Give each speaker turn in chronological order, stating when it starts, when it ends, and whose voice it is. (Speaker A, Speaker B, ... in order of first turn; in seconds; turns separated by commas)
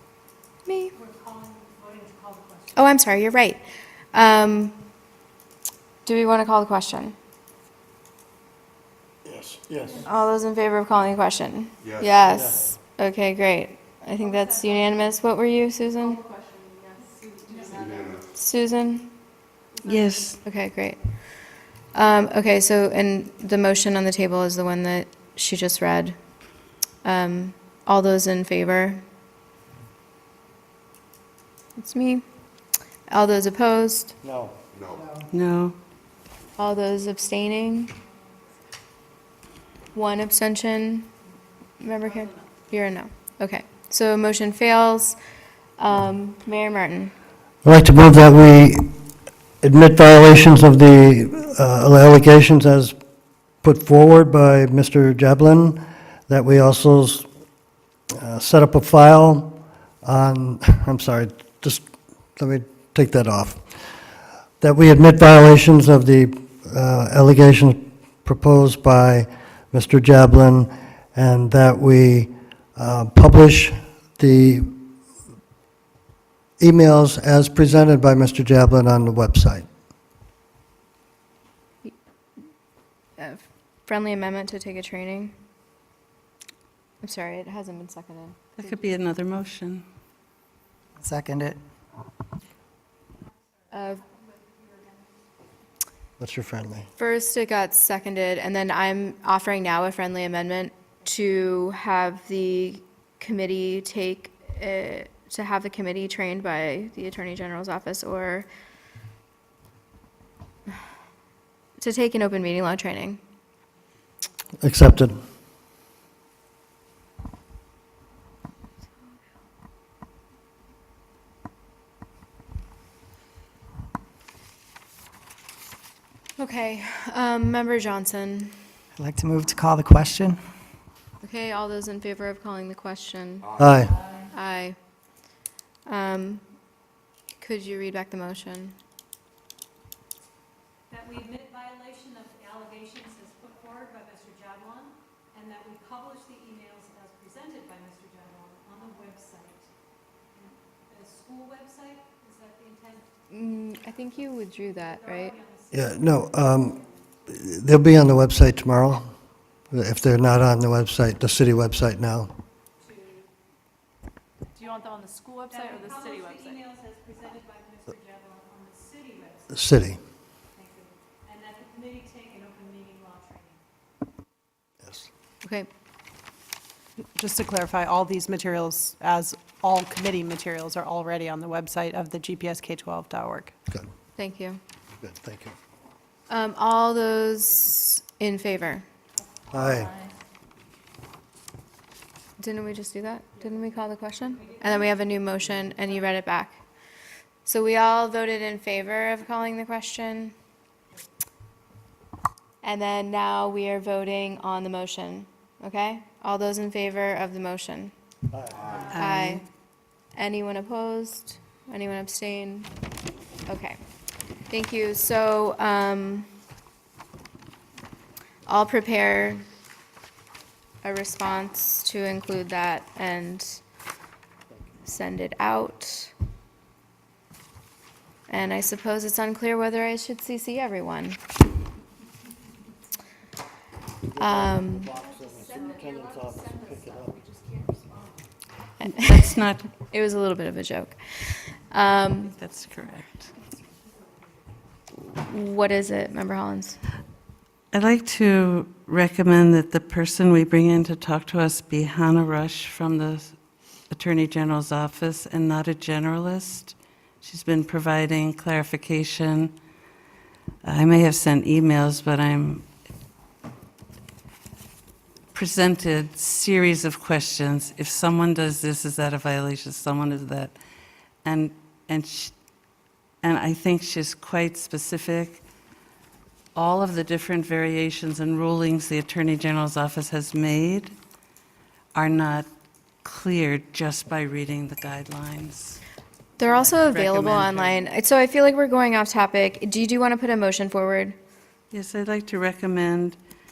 Speaker A: 0.7-0.9, Speaker B: 1.2-2.7, Speaker A: 2.8-3.6, Speaker A: 4.1-4.8, Speaker A: 6.0-7.2, Speaker C: 9.2-10.0, Speaker A: 10.0-16.2, Speaker D: 11.8-12.4, Speaker B: 16.1-18.2, Speaker E: 17.2-17.9, Speaker D: 17.7-18.3, Speaker A: 18.3-19.1, Speaker F: 19.9-20.4, Speaker A: 20.4-21.3, Speaker A: 21.9-26.2, Speaker A: 27.0-29.0, Speaker A: 31.8-32.2, Speaker A: 33.1-34.1, Speaker C: 34.2-34.6, Speaker D: 34.7-35.1, Speaker G: 34.9-35.3, Speaker F: 35.3-35.8, Speaker A: 36.6-37.9, Speaker A: 39.9-41.1, Speaker A: 41.8-45.2, Speaker A: 45.8-47.1, Speaker C: 47.6-48.9, Speaker C: 49.6-53.0, Speaker C: 53.6-57.3, Speaker C: 58.1-61.9, Speaker C: 62.4-63.6, Speaker C: 64.6-74.7, Speaker C: 76.6-79.7, Speaker A: 83.2-85.3, Speaker A: 87.0-88.8, Speaker F: 88.6-89.8, Speaker G: 91.0-91.6, Speaker A: 93.7-94.0, Speaker B: 94.1-95.1, Speaker C: 96.2-96.9, Speaker A: 97.0-108.5, Speaker A: 111.8-113.2, Speaker C: 114.6-115.2, Speaker A: 126.4-128.6, Speaker G: 129.0-130.4, Speaker A: 131.2-133.5, Speaker D: 133.4-133.7, Speaker C: 133.6-133.9, Speaker A: 134.3-134.8, Speaker A: 135.9-136.4, Speaker A: 137.4-138.8, Speaker E: 140.9-149.6, Speaker E: 150.9-153.1, Speaker A: 153.3-155.4, Speaker E: 155.1-155.7, Speaker C: 155.7-159.1, Speaker C: 159.7-162.3, Speaker E: 162.9-163.2, Speaker B: 164.6-166.8, Speaker E: 165.5-169.5, Speaker C: 169.5-170.0, Speaker E: 170.6-173.6, Speaker C: 174.8-175.1, Speaker A: 175.4-175.7, Speaker H: 177.2-183.5, Speaker A: 184.2-184.6, Speaker C: 185.0-185.6, Speaker A: 186.3-188.8, Speaker C: 189.5-189.9, Speaker A: 192.4-196.6, Speaker A: 197.4-200.3, Speaker A: 202.6-207.9, Speaker C: 208.3-208.7, Speaker D: 208.6-208.9, Speaker F: 208.8-209.4, Speaker A: 208.9-209.4, Speaker A: 210.2-212.7, Speaker A: 213.5-213.8, Speaker A: 214.5-216.3, Speaker A: 218.5-219.4, Speaker A: 220.8-223.6, Speaker A: 224.8-226.1, Speaker A: 228.3-231.2, Speaker C: 234.1-237.2, Speaker A: 234.2-234.9, Speaker B: 235.2-238.2, Speaker E: 235.3-237.0, Speaker A: 238.8-242.3, Speaker F: 238.9-239.7, Speaker F: 242.3-243.3, Speaker A: 245.0-246.8, Speaker F: 247.7-253.4, Speaker F: 253.9-259.5, Speaker F: 260.6-262.6, Speaker F: 265.3-270.6, Speaker F: 271.2-272.4, Speaker F: 273.2-275.4, Speaker F: 276.6-281.0, Speaker F: 281.9-282.5, Speaker F: 283.0-285.8, Speaker A: 286.4-291.2, Speaker F: 286.4-287.8, Speaker F: 291.7-293.2